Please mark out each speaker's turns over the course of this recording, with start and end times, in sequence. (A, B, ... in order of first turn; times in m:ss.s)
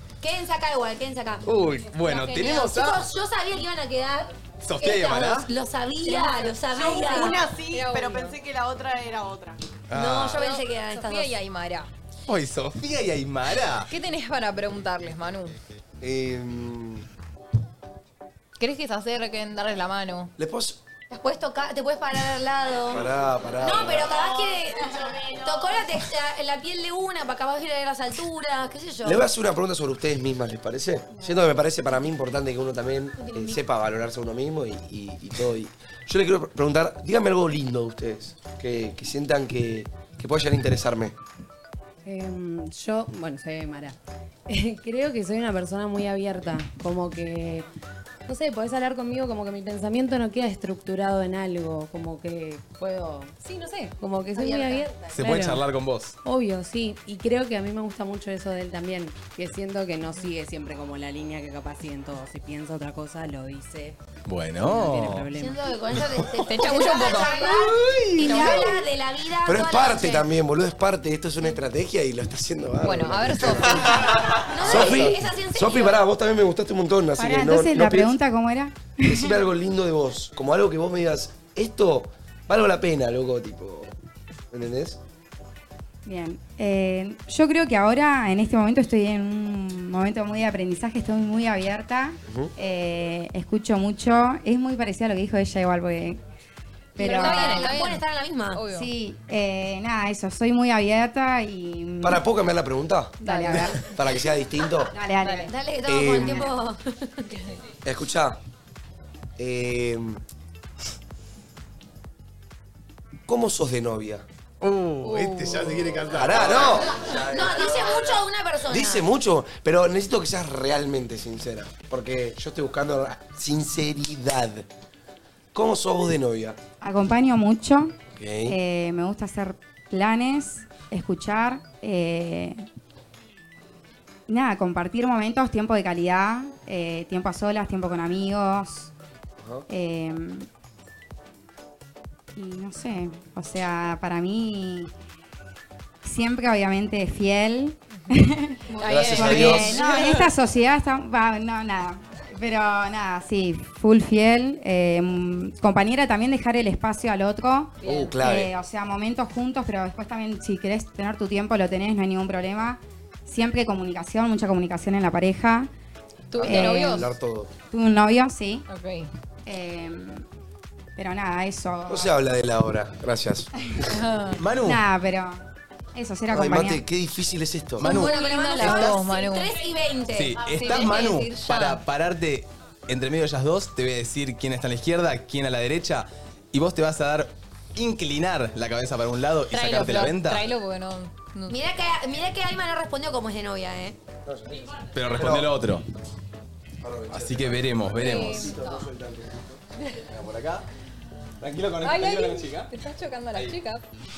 0:00.2-0:07.5 A
0:01.4-0:03.1 B
0:04.6-0:05.5 B
0:06.0-0:08.4 C
0:06.7-0:09.6 D
0:09.9-0:10.5 B
0:09.9-0:11.3 A
0:10.4-0:11.9 C
0:12.3-0:13.9 B
0:13.9-0:15.6 C
0:16.0-0:17.0 E
0:18.6-0:20.3 C
0:20.4-0:20.8 E
0:21.1-0:29.2 A
0:22.9-0:24.2 E
0:24.2-0:25.8 D
0:29.0-0:41.2 E
0:33.2-0:33.6 A
0:42.0-0:44.0 F
0:44.5-0:47.7 F
0:48.3-0:55.6 F
0:53.5-0:53.7 C
0:54.4-0:54.9 A
0:55.1-0:56.2 B
0:56.2-1:04.0 F
1:04.3-1:05.3 B
1:04.6-1:05.8 F
1:05.3-1:10.3 A
1:06.4-1:07.5 C
1:07.5-1:08.8 E
1:08.2-1:08.6 C
1:09.4-1:18.2 E
1:12.8-1:14.2 C
1:13.8-1:16.0 A
1:17.2-1:19.3 G
1:19.0-1:23.9 E
1:24.5-1:25.0 E
1:26.0-1:36.2 G
1:37.0-1:37.8 G
1:37.0-1:38.0 C
1:37.0-1:38.7 A
1:38.5-1:38.9 C
1:38.7-1:42.2 G
1:42.0-1:45.0 E
1:43.2-1:43.9 G
1:43.3-1:43.6 C
1:44.9-1:45.5 G
1:45.2-1:47.4 A
1:45.8-1:46.5 E
1:46.1-1:46.5 G
1:47.8-1:48.4 E
1:49.4-1:50.2 E
1:53.3-1:54.3 E
1:54.6-1:56.8 B
1:55.0-1:56.0 C
1:56.1-2:04.7 E
1:57.1-1:59.1 A
2:05.5-2:06.6 E
2:06.8-2:12.6 G
2:08.1-2:08.6 E
2:14.3-2:18.9 G
2:19.4-2:19.7 E
2:19.7-2:20.5 G
2:22.4-2:24.9 G
2:26.0-2:45.7 G
2:28.7-2:30.3 C
2:28.8-2:29.8 E
2:37.8-2:38.2 C
2:37.8-2:38.5 E
2:46.3-2:47.1 C
2:46.4-2:47.5 E
2:46.4-2:47.1 G
2:47.7-2:48.7 G
2:48.7-2:49.1 C
2:49.5-2:50.3 G
2:51.0-2:52.1 G
2:51.9-2:53.6 E
2:53.9-2:54.4 C
2:54.4-2:54.8 B
2:54.6-2:55.4 G
2:56.0-2:56.8 G
2:56.3-2:57.8 E
2:57.8-2:59.0 B
2:57.8-2:59.6 C
2:57.8-3:01.0 A
3:00.1-3:10.5 B
3:00.4-3:01.8 C
3:09.5-3:11.6 C
3:11.5-3:14.0 A
3:14.2-3:15.5 E
3:14.9-3:15.9 B
3:16.8-3:19.6 E
3:17.1-3:18.6 B
3:18.0-3:18.6 C
3:20.0-3:20.6 B
3:21.4-3:22.7 B
3:21.8-3:23.8 C